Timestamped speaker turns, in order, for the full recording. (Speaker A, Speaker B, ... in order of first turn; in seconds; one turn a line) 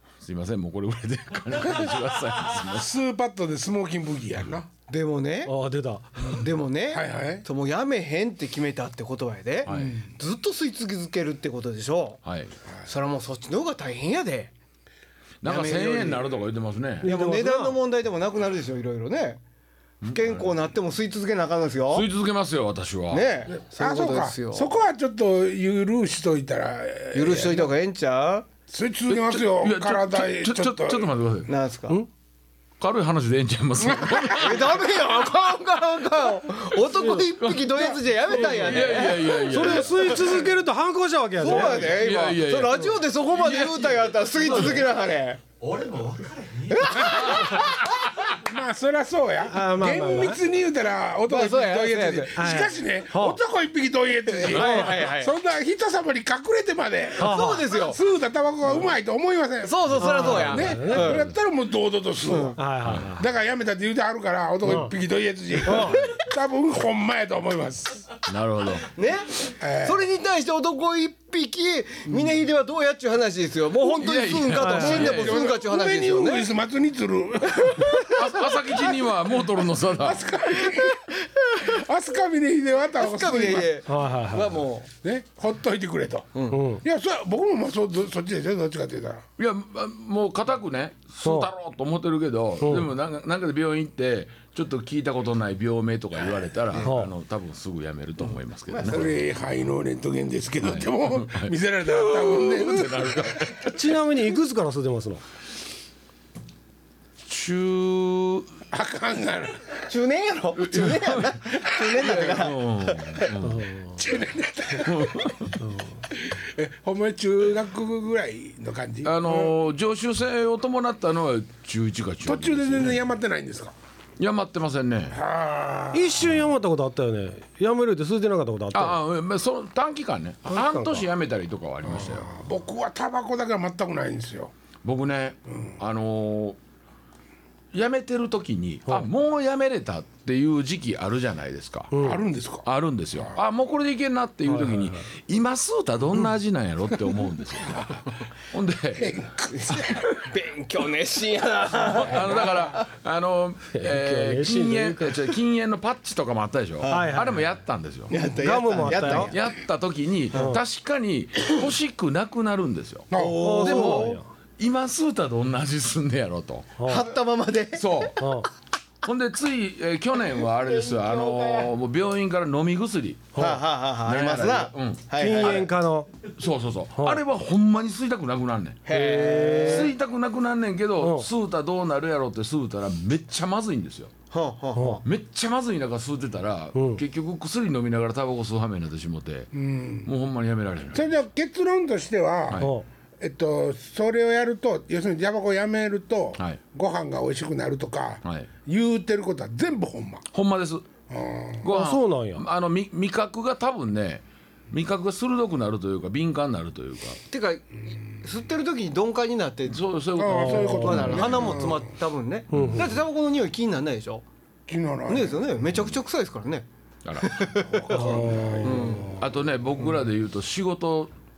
Speaker A: 0.2-2.9
Speaker B: 2.7-4.7
Speaker C: 4.9-5.5
Speaker D: 5.5-6.4
Speaker C: 6.3-12.2
Speaker B: 6.9-7.5
Speaker A: 9.6-10.0
Speaker A: 12.2-12.5
Speaker C: 12.8-14.5
Speaker A: 15.4-17.1
Speaker C: 15.4-16.4
Speaker D: 17.0-17.8
Speaker C: 17.0-19.4
Speaker A: 20.0-20.6
Speaker C: 20.1-22.1
Speaker A: 21.9-23.3
Speaker C: 23.1-24.7
Speaker B: 23.5-27.7
Speaker C: 27.1-28.4
Speaker B: 28.7-31.1
Speaker A: 29.1-31.5
Speaker C: 31.5-32.0
Speaker A: 32.8-34.8
Speaker B: 33.9-34.2
Speaker C: 34.3-40.0
Speaker D: 36.9-37.2
Speaker A: 37.4-37.8
Speaker B: 37.7-38.0
Speaker A: 38.4-40.4
Speaker D: 39.4-42.0
Speaker C: 41.4-45.4
Speaker A: 41.5-43.9
Speaker E: 45.6-47.7
Speaker C: 46.7-47.8
Speaker B: 47.0-47.6
Speaker B: 48.3-68.1
Speaker D: 49.5-50.4
Speaker C: 51.3-52.4
Speaker D: 52.4-53.4
Speaker C: 54.3-55.3
Speaker D: 54.5-55.0
Speaker C: 57.2-58.0
Speaker D: 57.2-57.7
Speaker C: 59.6-61.3
Speaker D: 60.0-61.1
Speaker A: 60.5-61.1
Speaker C: 62.2-62.6
Speaker D: 62.5-63.2
Speaker A: 62.8-63.1
Speaker D: 64.6-64.9
Speaker D: 65.6-66.0
Speaker A: 68.2-68.9
Speaker C: 68.9-76.5
Speaker B: 69.6-70.1
Speaker B: 72.0-72.4
Speaker A: 73.8-75.5
Speaker D: 74.5-75.3
Speaker B: 74.9-83.7
Speaker C: 77.5-78.3
Speaker A: 78.1-80.3
Speaker C: 80.5-81.6
Speaker C: 82.9-84.9
Speaker D: 83.9-84.6
Speaker B: 85.0-89.2
Speaker C: 86.3-86.6
Speaker D: 86.5-86.8
Speaker A: 89.4-99.1
Speaker D: 91.2-91.5
Speaker D: 92.6-92.9
Speaker D: 96.8-97.1
Speaker C: 98.2-99.2
Speaker B: 98.8-103.6
Speaker A: 100.6-103.8
Speaker D: 103.6-105.2
Speaker A: 107.2-108.5
Speaker B: 108.7-109.8
Speaker C: 109.8-113.3
Speaker A: 110.5-113.6
Speaker B: 111.8-112.1
Speaker D: 113.4-114.0
Speaker B: 114.0-115.5
Speaker A: 114.8-115.6
Speaker D: 115.6-116.0
Speaker B: 116.1-119.5
Speaker A: 119.0-123.0
Speaker B: 122.2-123.7
Speaker A: 124.2-125.2
Speaker B: 125.1-126.3
Speaker D: 125.9-129.0
Speaker A: 128.7-132.3
Speaker D: 130.4-131.1
Speaker B: 131.8-134.5
Speaker A: 134.8-136.6
Speaker B: 135.5-135.8
Speaker A: 137.7-142.0
Speaker D: 141.9-142.2
Speaker B: 142.0-143.3
Speaker A: 142.6-148.0
Speaker D: 144.5-145.1
Speaker B: 147.6-148.0
Speaker A: 148.5-149.2
Speaker B: 148.9-150.3
Speaker C: 149.5-152.8
Speaker A: 152.0-158.1
Speaker D: 153.7-155.2
Speaker C: 156.8-157.2
Speaker D: 156.8-157.5
Speaker C: 158.1-159.4
Speaker D: 158.2-159.3
Speaker A: 159.1-166.8
Speaker D: 160.3-160.6
Speaker B: 163.1-163.5
Speaker C: 163.1-164.2
Speaker D: 163.4-164.3
Speaker D: 166.8-167.1
Speaker C: 166.8-168.1
Speaker A: 167.7-168.2
Speaker D: 168.2-168.5
Speaker A: 169.0-173.4
Speaker C: 170.6-171.7
Speaker D: 173.3-173.6
Speaker C: 173.3-175.7
Speaker A: 174.0-175.7
Speaker D: 175.2-176.1
Speaker A: 176.4-178.8
Speaker D: 176.9-177.2
Speaker C: 178.8-179.9
Speaker D: 178.9-179.9
Speaker A: 179.6-184.1
Speaker D: 181.0-181.3
Speaker C: 184.3-185.0
Speaker D: 184.8-185.0
Speaker A: 185.0-189.5
Speaker D: 186.7-187.0
Speaker B: 189.5-190.1
Speaker A: 190.0-191.1
Speaker B: 190.9-200.2
Speaker A: 192.5-192.7
Speaker D: 192.6-192.8
Speaker A: 198.2-198.5
Speaker A: 200.3-200.9
Speaker B: 201.1-201.7
Speaker A: 201.6-207.2
Speaker D: 201.7-202.4
Speaker C: 207.3-209.8
Speaker A: 209.7-211.7
Speaker B: 210.2-211.9
Speaker D: 210.3-211.2
Speaker C: 210.8-214.2
Speaker D: 212.5-213.0
Speaker A: 212.5-213.0
Speaker B: 214.7-215.6
Speaker C: 215.1-216.7
Speaker A: 215.7-216.0
Speaker A: 217.0-217.4
Speaker C: 217.2-219.2
Speaker B: 217.6-219.2
Speaker D: 217.9-219.2
Speaker A: 219.0-221.1